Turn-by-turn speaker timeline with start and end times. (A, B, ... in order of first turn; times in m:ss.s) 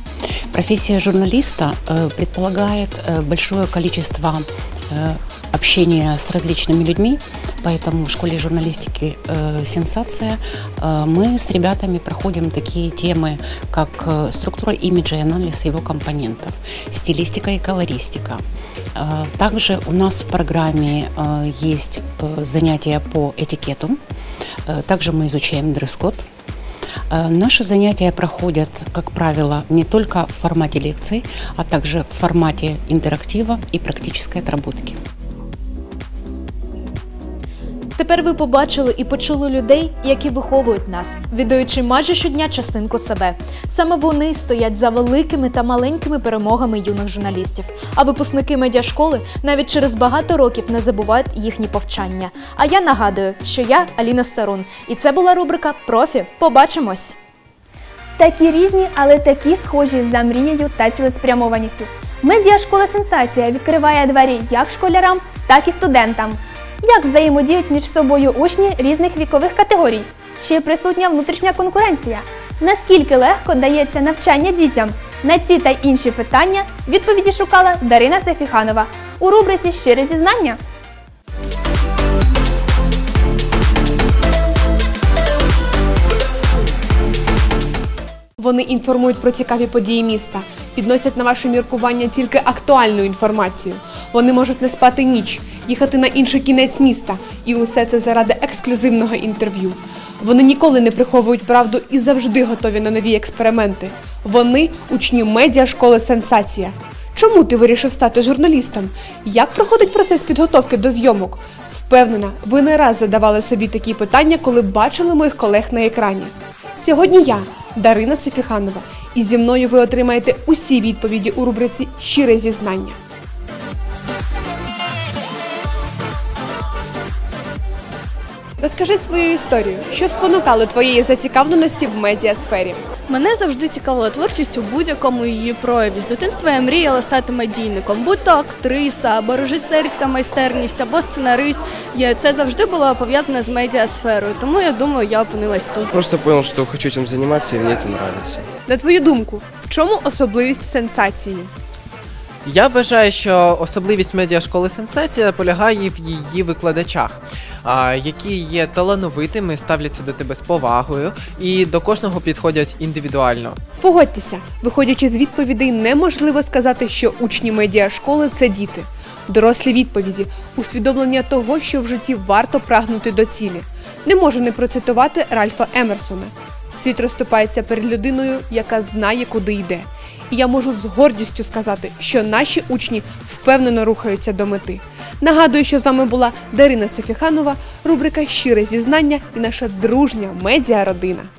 0:00.5-0:18.4 A
0:19.0-0:24.0 A
0:24.7-0:26.2 A
0:27.1-0:34.9 A
0:38.0-0:57.1 B
0:58.2-1:20.6 C
1:28.4-2:03.0 D
2:08.6-2:12.8 D
2:13.1-2:25.9 E
2:25.9-2:28.5 F
2:28.7-2:31.5 D
2:32.4-2:43.6 G
2:43.8-3:11.3 D